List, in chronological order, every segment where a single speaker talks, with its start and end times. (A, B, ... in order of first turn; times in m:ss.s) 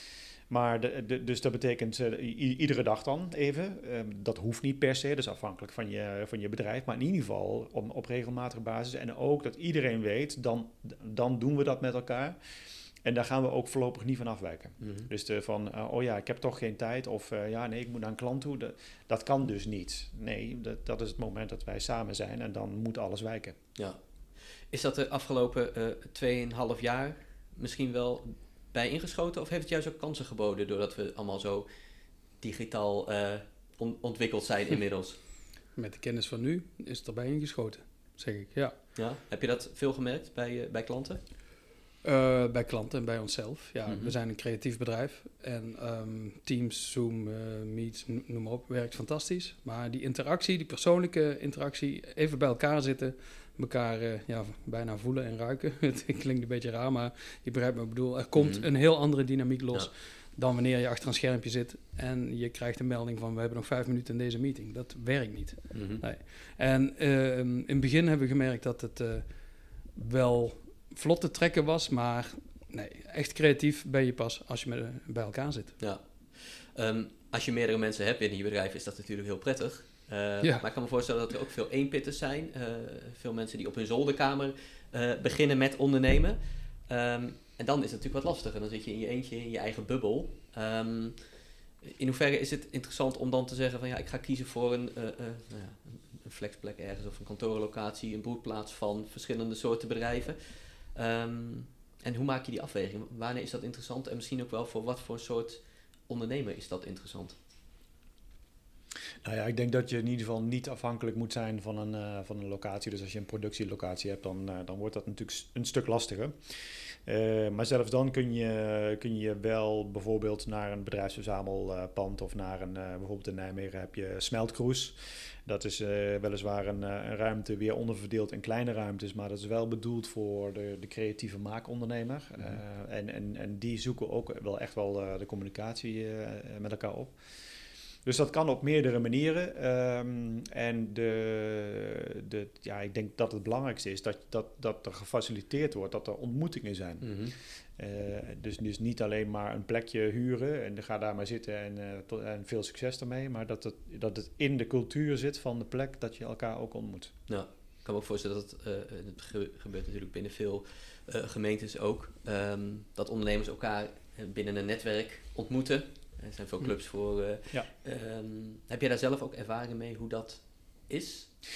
0:00.5-0:12.4 A
0:13.0-0:23.6 A
0:14.8-0:15.1 B
0:24.7-0:31.7 B
0:32.4-0:35.2 B
0:35.8-0:38.8 C
0:38.9-0:41.2 B
0:42.0-1:09.3 C
0:43.8-0:44.1 B
0:58.4-0:58.7 B
1:05.7-1:06.0 B
1:09.9-1:15.8 C
1:15.8-1:31.2 B
1:31.8-1:47.4 B
1:49.2-1:56.5 A
1:57.0-2:17.2 A
2:18.0-2:37.1 A
2:27.0-2:27.3 B
2:37.3-2:51.3 B